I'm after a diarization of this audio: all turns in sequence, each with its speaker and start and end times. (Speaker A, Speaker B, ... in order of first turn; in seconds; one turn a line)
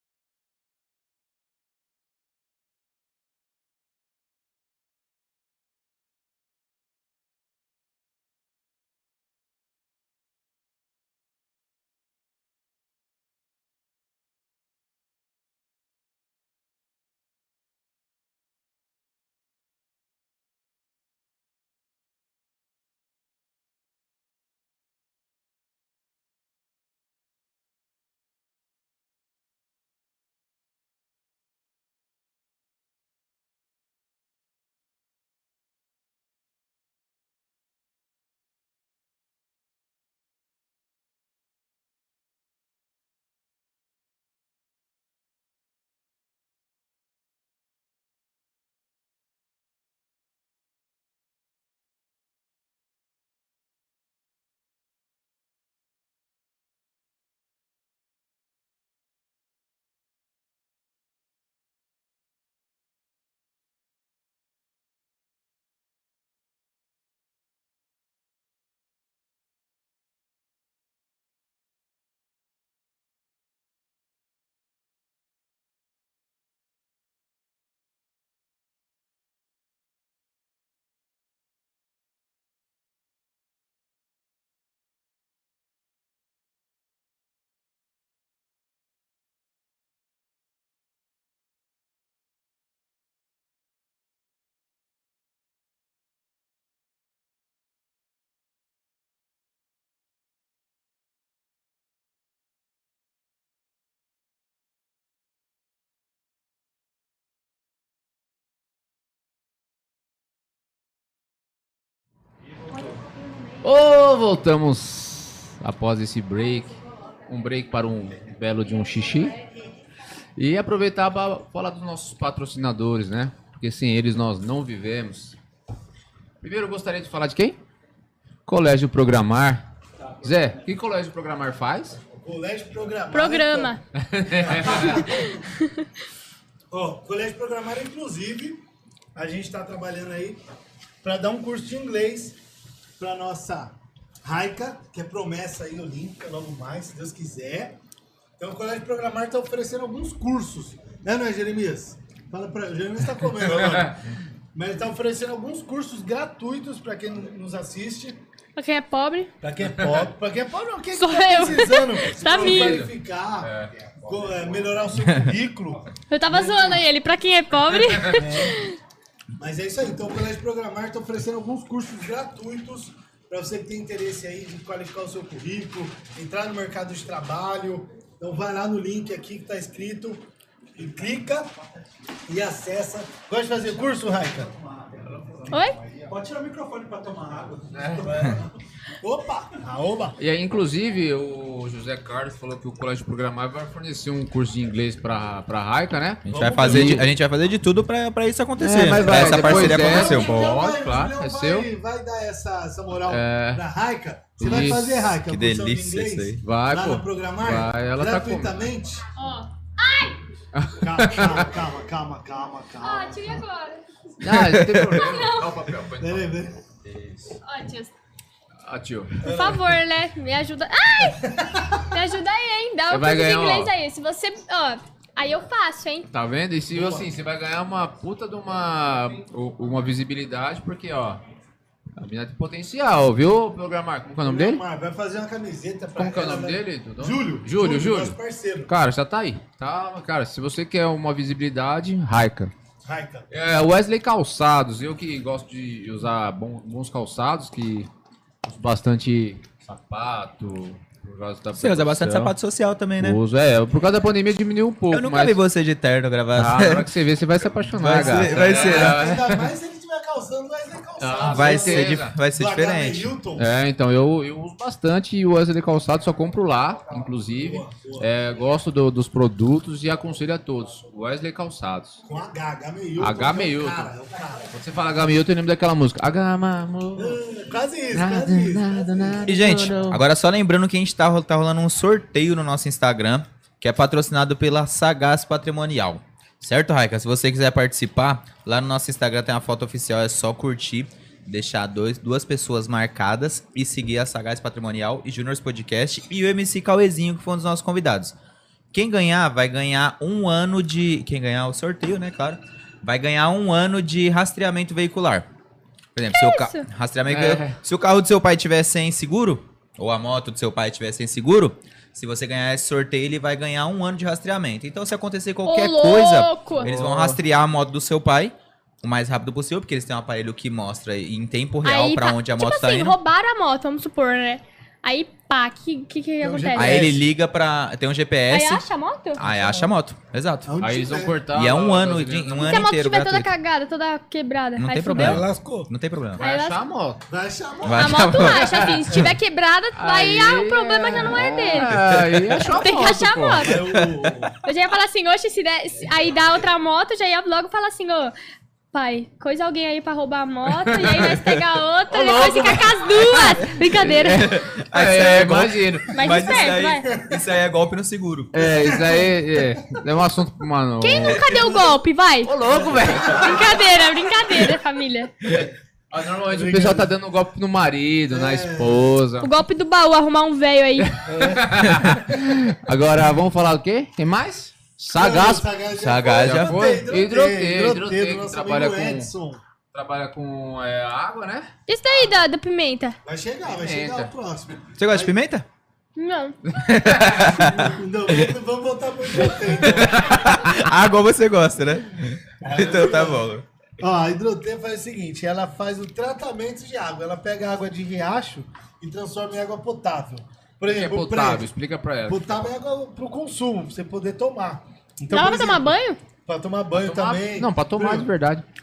Speaker A: 113.6-119.4
Speaker A: 120.3-125.3
Speaker A: 126.4-127.6
Speaker A: 128.4-129.7
Speaker A: 130.2-132.0
Speaker B: 132.1-133.8
Speaker C: 133.1-133.8
Speaker A: 133.9-135.1
Speaker B: 134.3-135.5
Speaker C: 135.4-135.8
Speaker B: 136.7-138.6
Speaker B: 139.1-140.4
Speaker B: 141.0-142.4
Speaker B: 143.0-147.8
Speaker B: 148.4-154.0
Speaker A: 153.4-154.0
Speaker B: 154.5-158.2
Speaker C: 158.6-159.3
Speaker B: 159.4-163.5
Speaker A: 159.6-160.1
Speaker C: 160.9-162.9
Speaker A: 162.3-163.7
Speaker D: 164.0-164.8
Speaker B: 164.0-166.9
Speaker C: 166.1-168.8
Speaker B: 168.1-168.7
Speaker B: 169.4-181.5
Speaker B: 182.3-184.5
Speaker D: 184.7-185.5
Speaker C: 185.5-185.8
Speaker D: 186.1-188.5
Speaker A: 187.7-188.3
Speaker B: 189.0-190.2
Speaker A: 190.2-197.1
Speaker E: 196.2-200.5
Speaker B: 196.3-197.1
Speaker A: 198.6-201.7
Speaker B: 198.9-209.1
Speaker A: 203.1-203.6
Speaker A: 204.4-205.1
Speaker E: 205.2-206.4
Speaker A: 206.4-208.7
Speaker C: 209.2-210.2
Speaker A: 210.5-211.5
Speaker B: 210.8-213.4
Speaker C: 212.8-213.8
Speaker A: 214.2-217.4
Speaker E: 214.3-215.0
Speaker C: 214.9-215.5
Speaker B: 216.0-216.6
Speaker C: 217.4-217.9
Speaker A: 218.6-219.3
Speaker B: 219.2-219.8
Speaker C: 219.2-226.1
Speaker B: 221.0-221.9
Speaker A: 222.9-223.7
Speaker A: 226.1-231.2
Speaker B: 226.7-227.1
Speaker A: 232.0-234.6
Speaker B: 234.2-238.7
Speaker A: 235.9-242.5
Speaker B: 242.8-243.3
Speaker A: 243.3-247.9
Speaker A: 248.4-252.3
Speaker E: 251.6-253.2
Speaker A: 253.0-255.4
Speaker E: 254.9-256.9
Speaker A: 256.3-259.5
Speaker E: 257.7-259.0
Speaker B: 257.8-263.5
Speaker A: 261.0-262.2
Speaker E: 261.3-263.1
Speaker A: 263.4-272.0
Speaker B: 266.9-268.1
Speaker B: 272.0-274.5
Speaker A: 273.0-273.9
Speaker A: 274.5-277.2
Speaker B: 276.9-279.7
Speaker A: 277.9-280.0
Speaker E: 279.2-298.1
Speaker E: 298.7-305.2
Speaker E: 305.9-322.9
Speaker C: 306.1-306.7
Speaker A: 307.1-307.6
Speaker C: 315.4-316.7
Speaker A: 316.6-317.2
Speaker C: 321.6-326.9
Speaker B: 326.2-327.0
Speaker E: 326.6-330.5
Speaker C: 328.3-329.2
Speaker B: 329.3-329.7
Speaker B: 330.4-331.2
Speaker A: 330.6-332.6
Speaker E: 331.3-333.3
Speaker C: 332.4-335.2
Speaker E: 334.6-336.2
Speaker B: 334.9-335.7
Speaker A: 336.2-337.0
Speaker C: 336.2-336.6
Speaker B: 337.1-338.1
Speaker E: 337.6-338.5
Speaker C: 337.7-341.8
Speaker A: 338.1-339.0
Speaker A: 339.7-343.5
Speaker C: 342.4-343.6
Speaker B: 343.4-344.4
Speaker E: 343.7-344.1
Speaker C: 344.4-348.1
Speaker C: 348.7-354.4
Speaker A: 350.5-351.4
Speaker A: 351.9-355.9
Speaker E: 353.8-358.3
Speaker C: 355.9-356.9
Speaker B: 356.9-357.2
Speaker A: 358.3-361.2
Speaker B: 358.4-359.9
Speaker C: 360.8-362.3
Speaker B: 361.1-361.8
Speaker A: 362.2-363.4
Speaker B: 362.4-363.6
Speaker C: 363.1-365.1
Speaker B: 365.2-365.5
Speaker A: 365.9-369.3
Speaker B: 366.3-366.9
Speaker B: 368.1-368.9
Speaker C: 369.2-371.0
Speaker A: 371.0-375.5
Speaker B: 371.0-372.4
Speaker B: 374.9-379.4
Speaker E: 375.7-376.6
Speaker A: 376.2-379.1
Speaker A: 379.7-381.5
Speaker C: 381.7-383.0
Speaker B: 383.0-385.1
Speaker A: 383.4-384.1
Speaker E: 384.8-385.4
Speaker C: 385.9-386.4
Speaker E: 386.6-387.8
Speaker A: 386.6-387.4
Speaker B: 387.1-390.3
Speaker E: 389.6-393.4
Speaker B: 392.4-401.5
Speaker A: 400.6-402.5
Speaker B: 402.1-405.7
Speaker C: 405.1-406.0
Speaker B: 406.2-408.1
Speaker A: 406.7-408.4